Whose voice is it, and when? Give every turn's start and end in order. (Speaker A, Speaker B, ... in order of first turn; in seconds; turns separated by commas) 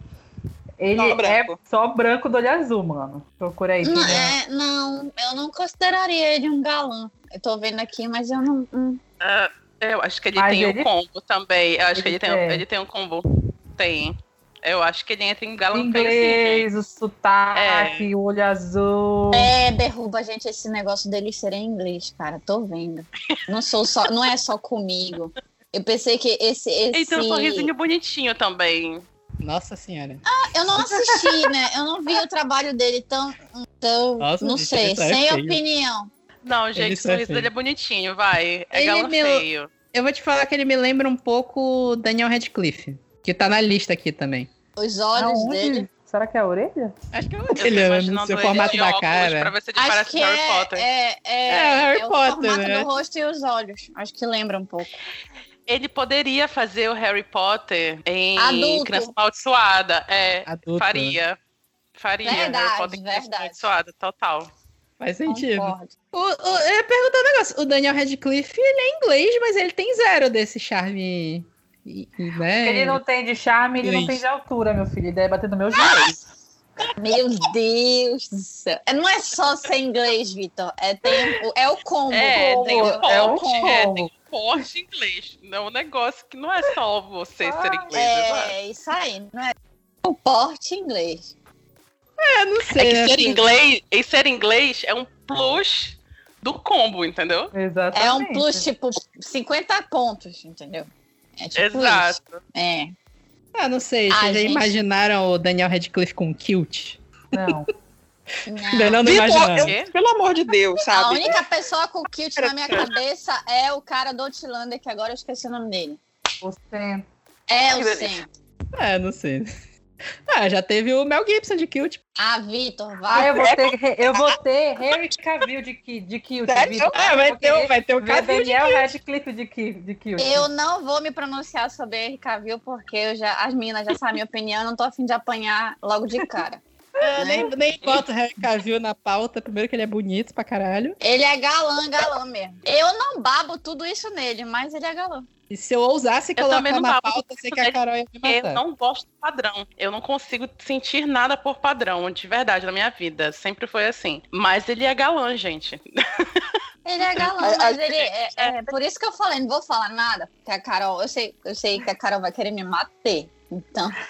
Speaker A: 0.8-4.3, Speaker B: 1.0-1.6, Speaker C: 3.8-9.0, Speaker D: 9.2-16.7, Speaker A: 10.4-10.9, Speaker A: 11.9-12.6, Speaker A: 15.7-19.5, Speaker D: 17.6-18.1, Speaker C: 19.3-27.7, Speaker D: 26.9-29.1, Speaker E: 29.4-30.2, Speaker C: 30.3-36.1, Speaker E: 34.2-35.6, Speaker D: 36.4-39.7, Speaker E: 36.8-37.5, Speaker E: 38.7-44.5, Speaker C: 44.8-45.9, Speaker A: 45.1-46.9, Speaker E: 47.1-49.5, Speaker D: 47.6-50.9, Speaker C: 49.8-55.0, Speaker E: 51.5-52.9, Speaker D: 55.7-61.4, Speaker C: 58.4-59.1, Speaker E: 60.5-61.2, Speaker D: 62.0-64.5, Speaker C: 62.2-63.6, Speaker E: 65.0-73.0, Speaker C: 65.3-65.9, Speaker A: 72.6-76.2, Speaker E: 73.8-74.2, Speaker C: 77.0-83.9, Speaker D: 82.1-88.5, Speaker A: 82.4-84.1, Speaker A: 87.4-88.0, Speaker C: 87.9-91.2, Speaker E: 92.2-93.4, Speaker D: 92.8-97.5, Speaker A: 97.5-98.6, Speaker C: 97.9-102.9, Speaker D: 101.6-102.4, Speaker E: 103.5-107.6, Speaker C: 104.1-104.7, Speaker A: 107.3-107.7, Speaker C: 108.5-109.1, Speaker E: 108.6-109.7, Speaker B: 109.0-111.5, Speaker D: 109.4-109.9, Speaker C: 110.8-116.0, Speaker B: 112.4-112.9, Speaker A: 116.4-117.1, Speaker C: 117.5-118.3, Speaker B: 117.7-118.2, Speaker E: 118.8-119.5, Speaker E: 120.3-122.0, Speaker C: 122.2-123.5, Speaker A: 123.1-130.5, Speaker B: 123.2-124.3, Speaker B: 126.5-127.1, Speaker E: 126.8-129.0, Speaker C: 130.2-136.6, Speaker E: 137.0-141.0, Speaker C: 137.2-137.5, Speaker C: 141.0-145.3, Speaker E: 145.5-148.6, Speaker D: 146.4-156.5, Speaker C: 156.8-163.9, Speaker B: 157.4-158.1